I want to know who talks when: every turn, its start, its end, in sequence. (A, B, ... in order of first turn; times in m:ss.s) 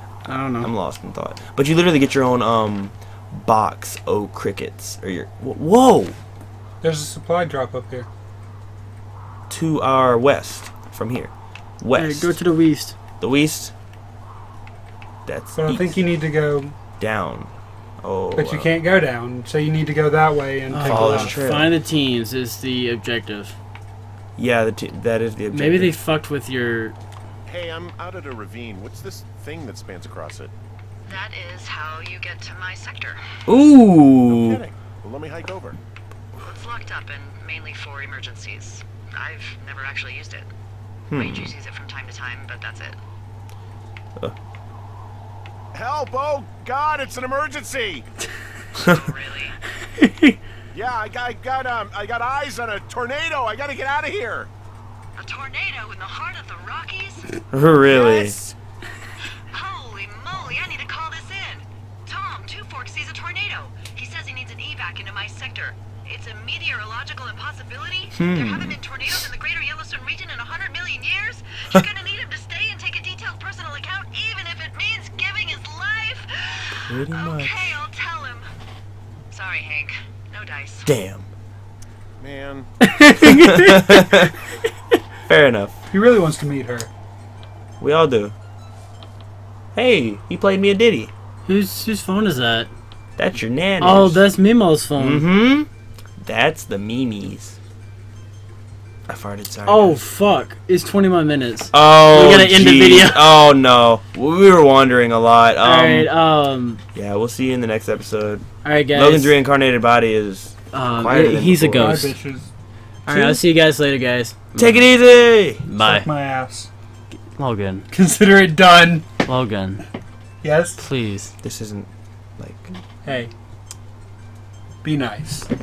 0:00.2-0:00.7 A
0:00.6-0:06.2 B
0:06.8-0:08.1 C
0:09.5-0:12.4 B
0:11.9-0:13.0 A
0:13.2-0:13.7 B
0:15.2-0:16.0 B
0:15.5-0:16.7 C
0:17.0-0:18.7 B
0:18.3-0:21.4 C
0:20.7-0:23.6 A
0:20.8-0:21.7 B
0:24.4-0:25.9 B
0:25.5-0:26.9 A
0:27.4-0:30.5 D
0:31.0-0:33.2 E
0:33.4-0:34.6 B
0:34.3-0:35.8 D
0:36.4-0:40.5 E
0:41.1-0:41.5 B
0:41.1-0:43.0 E
0:45.7-0:48.1 D
0:48.8-0:49.6 E
0:50.0-0:50.4 A
0:50.7-0:54.5 D
0:55.2-0:58.4 E
0:57.5-0:58.4 B
0:59.5-1:18.5 E
1:08.2-1:08.8 B
1:16.9-1:17.8 B
1:19.3-1:20.9 E
1:20.8-1:21.3 B
1:22.2-1:22.7 D
1:22.8-1:24.1 A
1:23.4-1:24.3 B
1:25.3-1:25.8 B
1:25.9-1:26.9 C
1:27.8-1:28.3 B
1:29.7-1:31.1 B
1:31.4-1:32.7 A
1:33.2-1:34.2 B
1:33.8-1:35.3 A
1:35.0-1:37.6 B
1:39.1-1:40.0 B
1:39.6-1:43.2 A
1:41.7-1:46.1 B
1:45.6-1:46.8 A
1:46.9-1:52.1 B
1:48.6-1:49.3 A
1:50.7-1:52.1 A
1:51.7-1:52.5 C
1:53.0-1:54.8 A
1:53.1-1:53.4 B
1:54.6-1:55.6 B
1:55.6-1:56.1 A
1:55.8-1:56.7 C
1:57.4-1:57.9 A
1:57.9-1:59.1 C
1:59.2-1:59.8 A
2:00.4-2:00.8 C
2:00.8-2:01.3 A
2:01.4-2:02.8 B
2:03.0-2:03.3 C
2:04.8-2:05.5 C